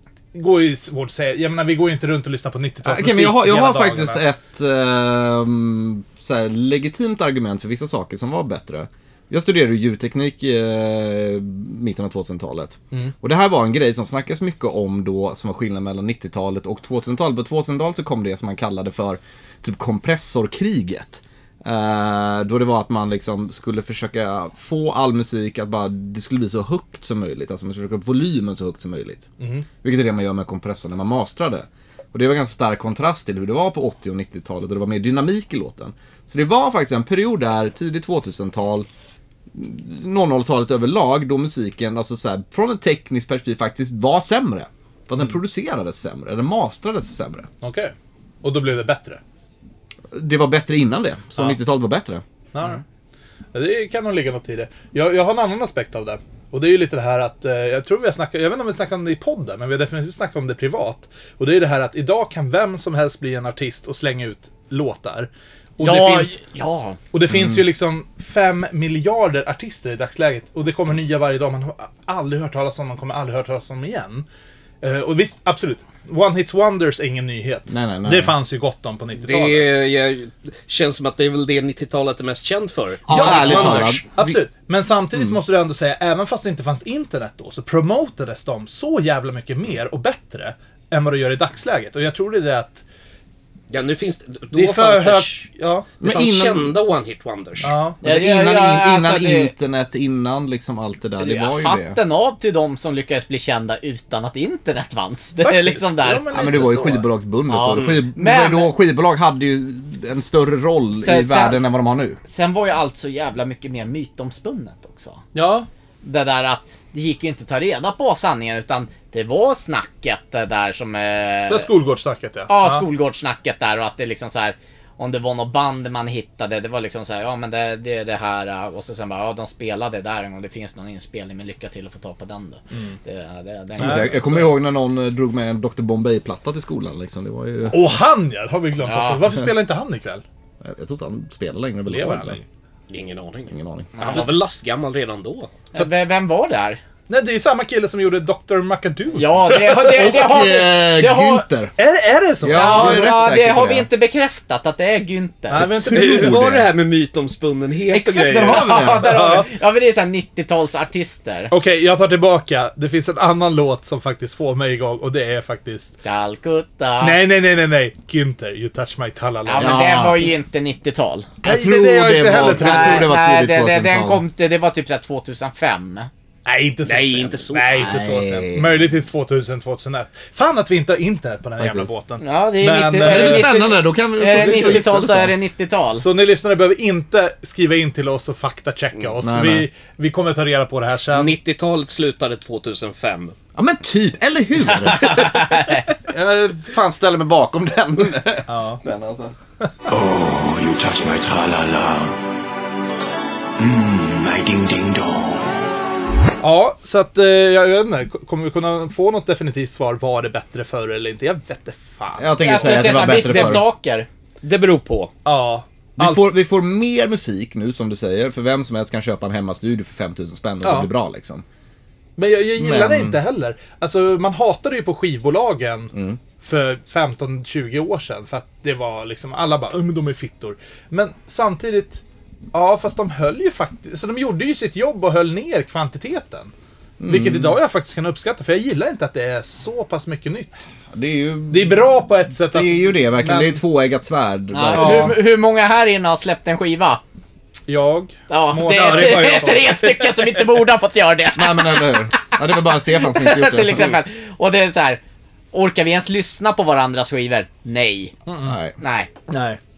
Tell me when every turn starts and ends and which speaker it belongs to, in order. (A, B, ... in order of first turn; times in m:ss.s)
0:00.3-0:04.2 A
0:02.8-0:29.3 B
0:29.4-0:29.6 A
0:29.8-0:38.9 B
0:39.5-0:47.5 B
0:47.6-0:49.2 A
0:50.1-0:52.2 B
0:52.5-0:52.8 A
0:53.5-1:06.4 A
1:05.8-1:07.0 C
1:07.1-1:14.2 A
1:07.3-1:07.6 B
1:14.8-1:19.7 A
1:17.7-1:18.3 B
1:19.2-1:24.1 D
1:23.1-1:24.4 B
1:23.1-1:32.8 A
1:25.1-1:25.4 B
1:33.7-1:35.5 D
1:34.5-1:35.9 A
1:36.0-1:36.7 B
1:36.0-1:37.7 D
1:37.6-1:38.0 A
1:38.0-1:42.0 B
1:38.0-1:39.5 C
1:41.2-1:46.3 C
1:45.4-1:47.1 A
1:46.3-1:52.2 B
1:47.5-1:48.7 C
1:51.0-1:51.7 C
1:52.2-1:55.2 C
1:55.3-1:55.7 A
1:56.0-2:01.7 C
2:01.5-2:02.8 A
2:02.5-2:14.2 C
2:12.7-2:13.0 A
2:13.8-2:14.5 A
2:13.8-2:18.0 B
2:17.7-2:20.2 A
2:18.8-2:19.2 C
2:20.6-2:22.4 B
2:21.9-2:22.4 A
2:22.9-2:25.5 D
2:23.5-2:24.2 B
2:24.0-2:24.2 C
2:25.7-2:26.8 C
2:27.1-2:30.2 A
2:29.1-2:31.5 C
2:29.8-2:31.7 B
2:31.8-2:33.1 A
2:32.4-2:33.9 B
2:32.5-2:35.7 C
2:35.5-2:36.4 A
2:35.6-2:36.7 B
2:35.9-2:38.7 D
2:37.9-2:39.2 B
2:38.5-2:41.5 C
2:38.9-2:39.5 A
2:41.5-2:45.9 A
2:46.0-2:47.2 C
2:47.0-2:49.8 A
2:49.4-2:51.3 C
2:49.6-2:50.3 B
2:51.4-2:53.1 A
2:51.4-2:54.2 B
2:52.4-2:56.1 C
2:56.4-3:03.6 A
2:56.8-2:58.1 D
2:57.7-2:58.9 B
3:01.6-3:01.9 B
3:02.2-3:06.0 C
3:03.0-3:05.3 B
3:04.3-3:04.8 A
3:06.0-3:11.4 A
3:09.2-3:09.7 B
3:11.1-3:13.3 D
3:13.5-3:19.3 B
3:15.0-3:15.9 C
3:18.5-3:18.8 A
3:19.9-3:22.1 E
3:23.6-3:25.5 E
3:26.4-3:33.4 A
3:32.2-3:33.6 B
3:32.4-3:34.1 C
3:33.3-3:33.6 D
3:34.4-3:35.1 D
3:35.2-3:36.2 A
3:36.0-3:41.4 B
3:40.6-3:40.9 A
3:42.2-3:52.0 A
3:42.6-3:43.2 B
3:45.9-3:46.2 B
3:52.5-3:56.5 A
3:57.0-3:57.6 B
3:57.1-4:00.5 A
4:00.9-4:05.2 B
4:01.5-4:03.6 A
4:04.5-4:07.0 C
4:04.7-4:05.2 A
4:07.7-4:10.4 A
4:08.3-4:12.3 C
4:11.3-4:14.0 B
4:12.9-4:15.0 C
4:15.5-4:18.1 C
4:18.3-4:18.6 A
4:18.4-4:18.8 B
4:18.8-4:19.1 C
4:19.3-4:19.6 A